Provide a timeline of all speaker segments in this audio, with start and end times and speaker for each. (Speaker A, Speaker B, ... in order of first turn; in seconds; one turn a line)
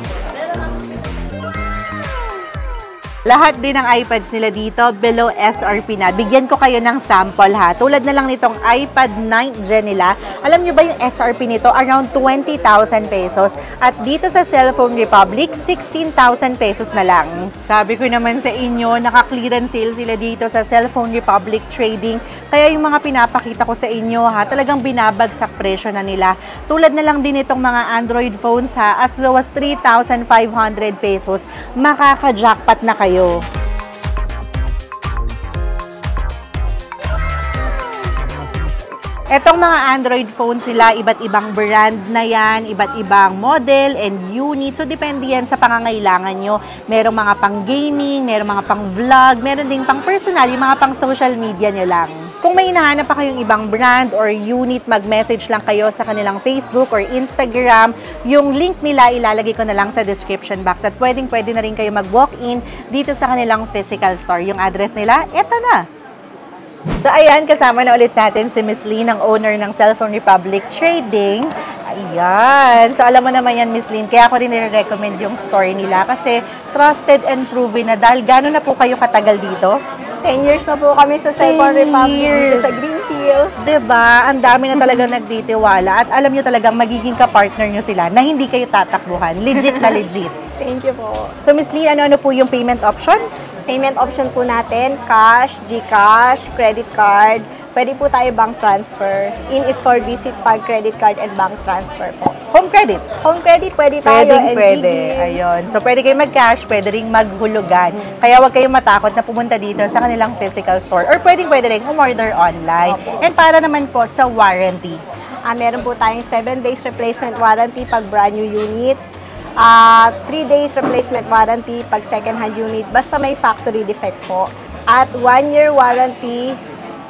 Speaker A: 3.2-33.4
Speaker A: 39.3-65.9
Speaker A: 67.0-79.8
Speaker B: 80.2-83.7
Speaker A: 81.4-82.8
Speaker A: 83.6-90.4
Speaker B: 90.6-91.3
Speaker A: 91.4-93.5
Speaker B: 93.7-102.4
Speaker A: 102.5-103.1
Speaker B: 103.2-105.5
Speaker A: 104.0-115.0
Speaker B: 112.8-113.2
Speaker B: 115.5-126.6